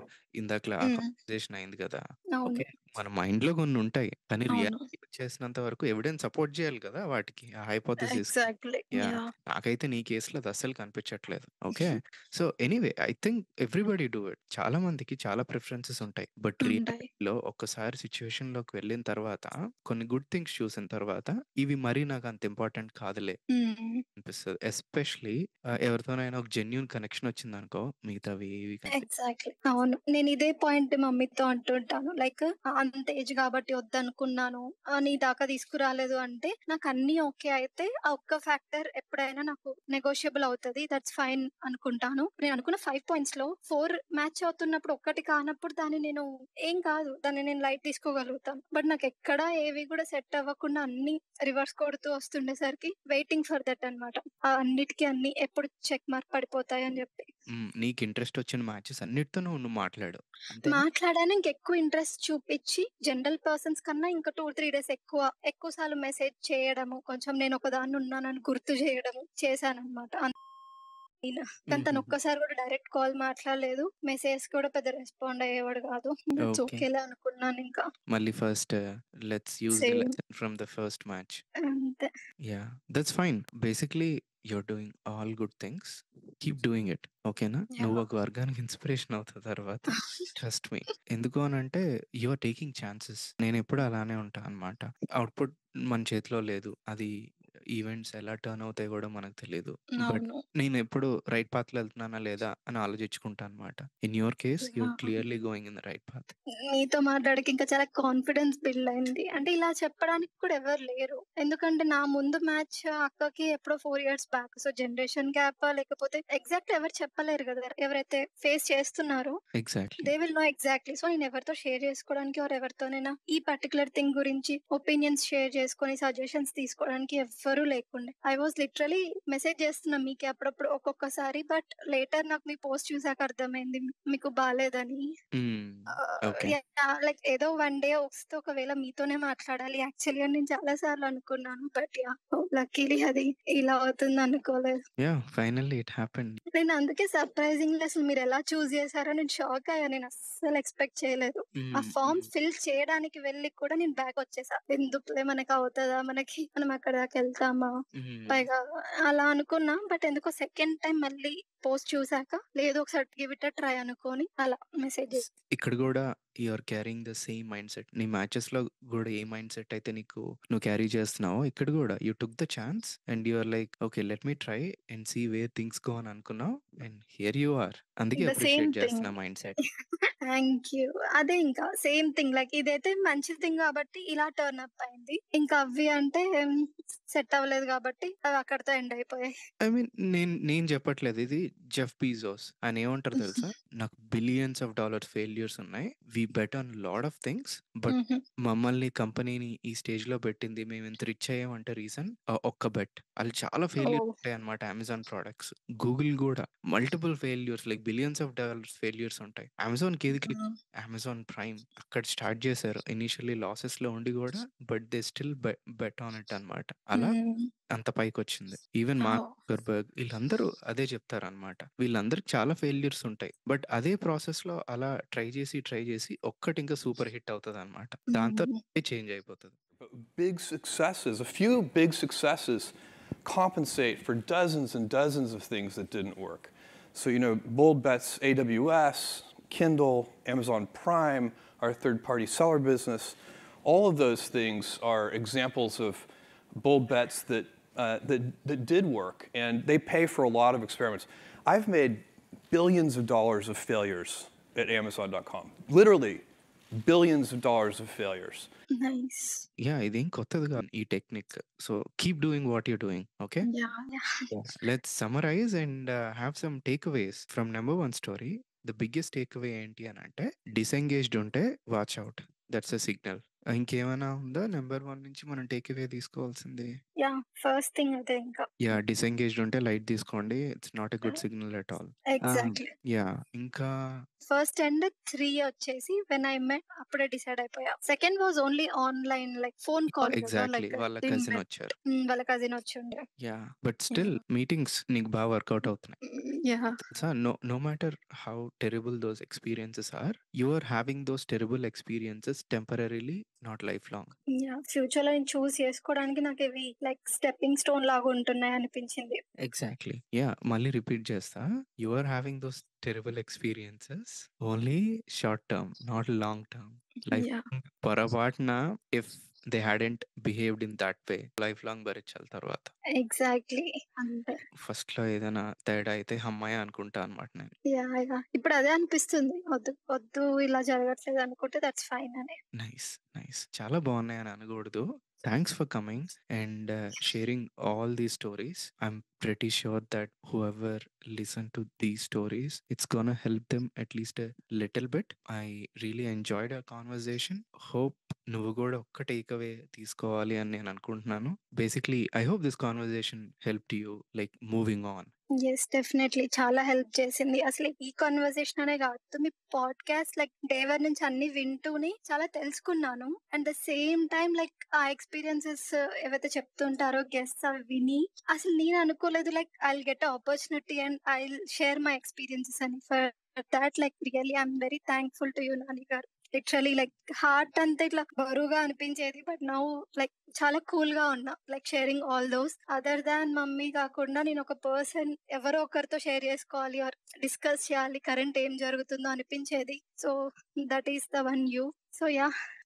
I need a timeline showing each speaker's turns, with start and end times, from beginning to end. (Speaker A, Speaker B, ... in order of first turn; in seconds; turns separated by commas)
Speaker A: 0.4-23.4, Speaker B: 0.8-1.1, Speaker B: 2.4-2.7, Speaker B: 4.5-4.8, Speaker B: 8.0-9.3, Speaker B: 16.6-17.1, Speaker B: 23.5-24.0, Speaker A: 24.2-29.1, Speaker B: 28.9-57.3, Speaker A: 57.5-60.8, Speaker B: 60.6-70.3, Speaker B: 71.2-77.8, Speaker A: 71.7-72.1, Speaker A: 76.4-76.8, Speaker A: 78.1-81.4, Speaker B: 79.7-80.1, Speaker B: 81.6-82.1, Speaker A: 82.5-97.1, Speaker B: 87.7-88.0, Speaker B: 89.9-90.3, Speaker A: 97.7-106.3, Speaker B: 100.0-100.4, Speaker B: 104.6-105.2, Speaker B: 106.7-119.3, Speaker A: 119.6-120.1, Speaker B: 120.0-135.1, Speaker A: 135.3-136.6, Speaker B: 135.9-144.8, Speaker A: 145.0-146.4, Speaker B: 146.5-157.7, Speaker A: 151.6-152.3, Speaker A: 157.9-158.5, Speaker B: 158.3-165.2, Speaker A: 165.1-179.6, Speaker B: 178.2-179.1, Speaker B: 180.2-186.3, Speaker B: 187.1-189.3, Speaker A: 189.6-217.2, Speaker B: 193.2-193.5, Speaker B: 197.9-198.2, Speaker B: 203.8-204.2, Speaker B: 210.1-210.6, Speaker B: 216.9-217.5, Speaker A: 217.7-229.5, Speaker B: 219.0-219.4, Speaker B: 228.1-228.6, Speaker C: 229.8-256.2, Speaker C: 256.8-258.5, Speaker B: 258.8-259.4, Speaker A: 259.6-263.5, Speaker B: 263.4-264.3, Speaker A: 264.3-276.7, Speaker B: 277.0-278.6, Speaker A: 278.6-283.7, Speaker B: 282.1-282.7, Speaker B: 284.3-293.0, Speaker A: 289.9-291.7, Speaker A: 293.2-296.0, Speaker B: 293.9-294.2, Speaker B: 296.0-296.8, Speaker A: 296.9-304.1, Speaker B: 304.4-309.2, Speaker A: 309.4-322.7, Speaker B: 317.1-317.4, Speaker B: 323.0-324.4, Speaker A: 324.6-327.5, Speaker B: 327.7-332.4, Speaker A: 332.6-355.1, Speaker B: 355.4-390.1, Speaker B: 390.7-392.3